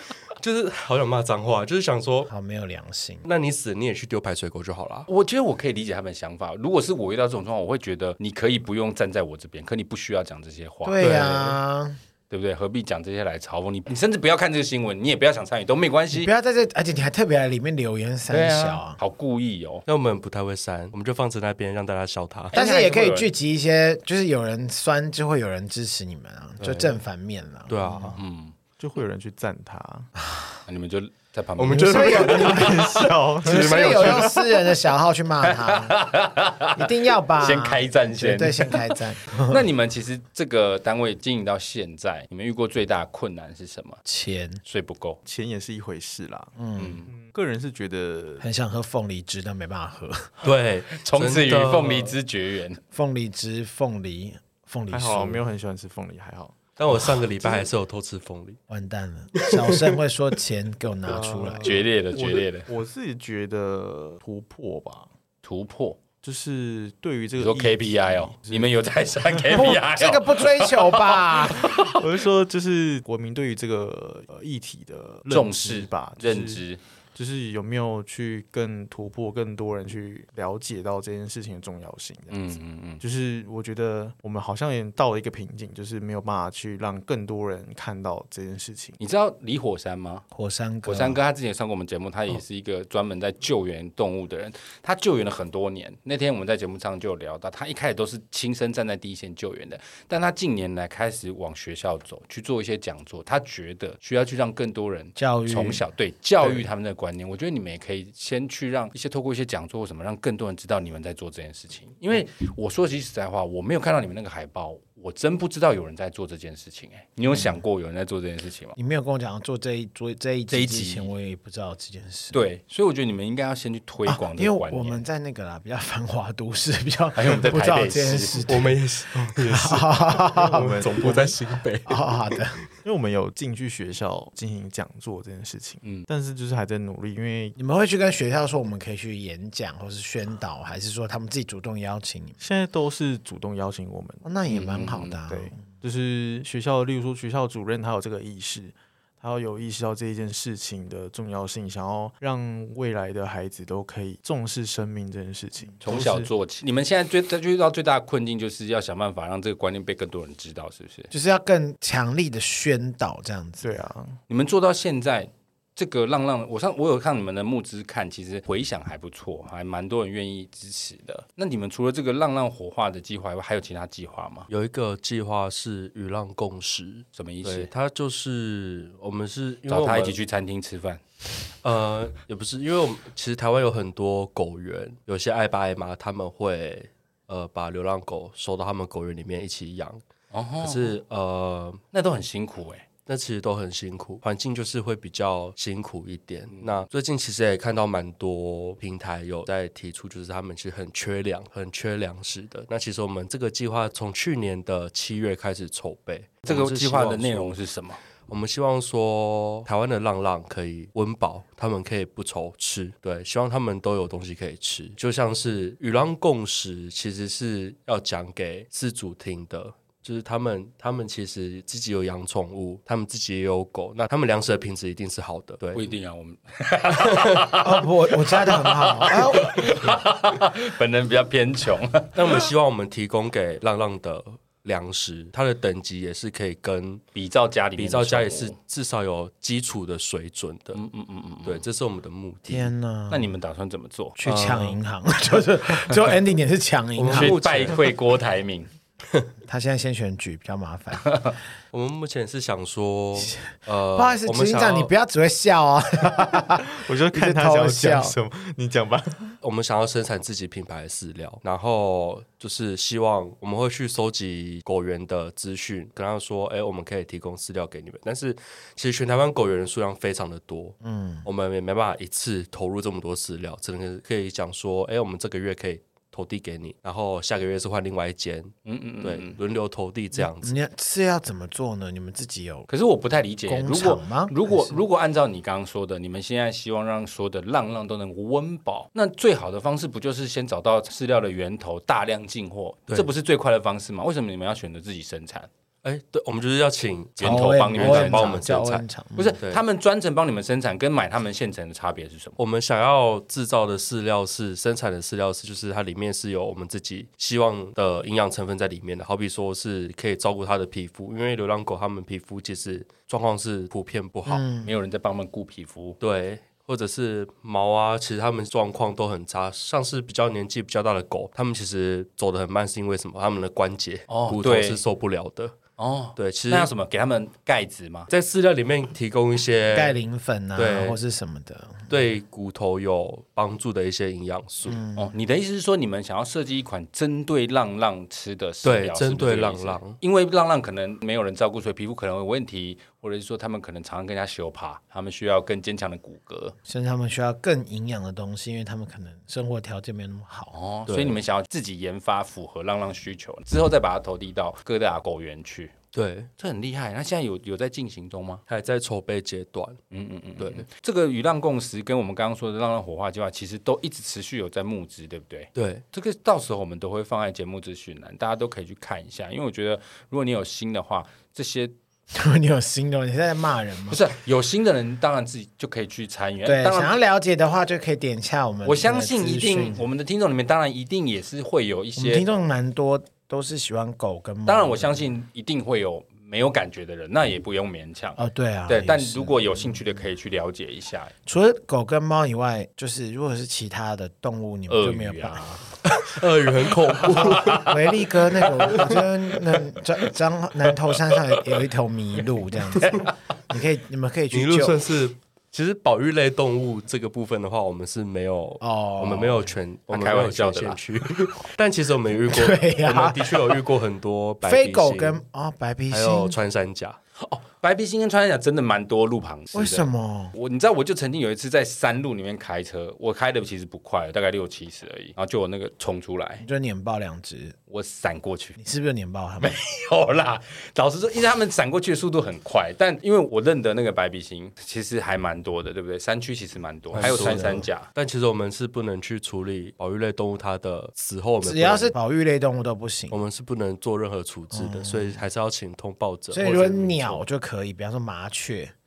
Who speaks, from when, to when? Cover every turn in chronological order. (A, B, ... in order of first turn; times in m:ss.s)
0:00.4-0:02.3 A
0:02.3-0:03.3 B
0:03.2-0:05.1 A
0:05.1-0:11.3 C
0:10.8-0:12.0 B
0:11.0-0:11.6 A
0:12.3-0:16.3 C
0:16.1-0:19.0 B
0:18.3-0:19.8 C
0:19.9-0:22.6 A
0:22.5-0:23.3 C
0:22.5-0:28.2 B
0:26.6-0:27.0 A
0:27.7-0:28.2 A
0:28.2-0:28.6 C
0:28.8-0:30.1 D
0:30.3-0:30.6 B
0:30.7-0:33.1 C
0:31.6-0:32.9 A
0:31.7-0:36.0 B
0:32.4-0:34.4 D
0:33.4-0:34.3 A
0:35.4-0:44.0 C
0:36.8-0:39.6 B
0:44.0-0:44.6 B
0:44.6-0:45.2 C
0:45.2-0:46.5 D
0:46.6-0:47.0 B
0:46.8-0:47.1 C
0:47.1-0:48.4 D
0:48.4-0:50.3 B
0:50.4-0:52.2 A
0:50.9-0:52.8 C
0:52.9-0:55.4 B
0:54.9-0:56.6 D
0:56.8-0:58.6 A
0:58.7-1:01.7 B
0:59.4-1:00.0 A
1:01.1-1:05.1 D
1:01.6-1:02.7 C
1:05.4-1:06.0 C
1:06.2-1:09.5 D
1:07.4-1:12.0 C
1:09.5-1:11.7 B
1:11.8-1:16.6 D
1:15.3-1:16.8 C
1:17.2-1:29.0 D
1:22.3-1:23.0 C
1:29.0-1:30.2 C
1:30.3-1:31.2 B
1:30.8-1:58.8 C
1:45.2-1:45.8 B
1:57.3-1:57.6 B
1:58.8-2:02.4 B
2:00.5-2:01.1 C
2:02.3-2:05.0 C
2:04.1-2:08.8 B
2:07.2-2:08.5 C
2:08.5-2:12.4 A
2:09.5-2:11.3 B
2:10.3-2:11.3 D
2:11.8-2:12.6 B
2:12.8-2:17.6 D
2:17.6-2:22.4 B
2:22.4-2:24.2 D
2:24.2-2:25.6 B
2:24.5-2:25.2 C
2:25.3-2:36.3 D
2:35.8-2:41.1 C
2:41.1-2:43.7 B
2:43.6-2:44.2 D
2:44.3-2:54.5 C
2:54.5-3:00.2 A
2:57.2-2:57.7 C
2:59.7-3:01.0 C
3:01.6-3:10.0 A
3:10.3-3:11.0 C
3:10.6-3:11.8 A
3:11.9-3:12.9 C
3:13.1-3:27.6 A
3:26.5-3:28.0 C
3:28.3-3:45.9 A
3:45.7-3:52.5 C
3:47.0-3:47.5 A
3:47.6-3:50.0 B
3:52.2-3:57.0 A
3:57.2-3:58.6 C
3:57.8-4:00.8 A
4:00.7-4:01.6 C
4:01.4-4:02.7 A
4:02.5-4:03.3 B
4:03.1-4:04.2 C
4:04.2-4:07.8 B
4:04.2-4:04.8 A
4:07.0-4:08.0 A
4:07.1-4:08.7 C
4:09.5-4:11.3 B
4:11.1-4:11.3 C
4:11.7-4:14.9 A
4:13.3-4:18.1 B
4:16.4-4:19.4 D
4:19.4-4:40.6 A
4:30.8-4:31.3 B
4:38.7-4:39.4 C
4:40.2-4:42.7 B
4:42.7-4:55.5 C
4:43.5-4:44.8 B
4:55.8-4:58.8 A
4:57.2-4:58.6 C
4:57.2-4:59.4 B
4:59.2-5:02.4 C
5:02.4-5:14.5 A
5:14.3-5:14.7 B
5:14.6-5:16.0 C
5:16.0-5:25.6 A
5:24.1-5:24.8 C
5:25.8-5:28.1 C
5:26.2-5:26.7 A
5:28.1-5:30.0 A
5:29.7-5:31.9 B
5:30.6-5:31.0 A
5:31.9-5:34.8 A
5:34.7-5:35.1 B
5:35.0-5:46.6 C
5:38.6-5:40.0 A
5:46.6-5:50.5 B
5:50.5-5:55.8 C
5:50.9-5:51.2 A
5:55.9-5:56.3 A
5:56.4-5:58.4 C
5:58.5-5:59.8 A
5:59.9-6:11.7 C
6:00.4-6:00.7 A
6:05.6-6:05.8 A
6:12.1-6:14.0 B
6:13.9-6:17.0 C
6:16.4-6:19.8 B
6:18.6-6:22.2 C
6:22.0-6:25.1 B
6:24.5-6:31.1 C
6:28.2-6:30.0 B
6:31.3-6:35.7 B
6:34.7-6:35.6 C
6:35.9-6:37.7 A
6:36.6-6:39.0 C
6:37.6-6:44.8 B
6:38.4-6:38.9 A
6:42.8-6:43.1 C
6:44.3-6:55.2 A
6:48.6-6:49.6 B
6:49.9-6:50.8 C
6:52.3-6:53.6 B
6:54.4-6:56.4 B
6:55.9-6:57.0 A
6:57.2-7:06.4 C
6:59.5-7:00.3 B
7:06.4-7:07.6 B
7:07.7-7:08.6 C
7:08.6-7:09.6 B
7:09.4-7:17.9 C
7:16.9-7:22.0 A
7:17.0-7:17.7 B
7:21.4-7:23.2 B
7:23.1-7:27.2 A
7:24.5-7:25.2 B
7:26.3-7:28.7 B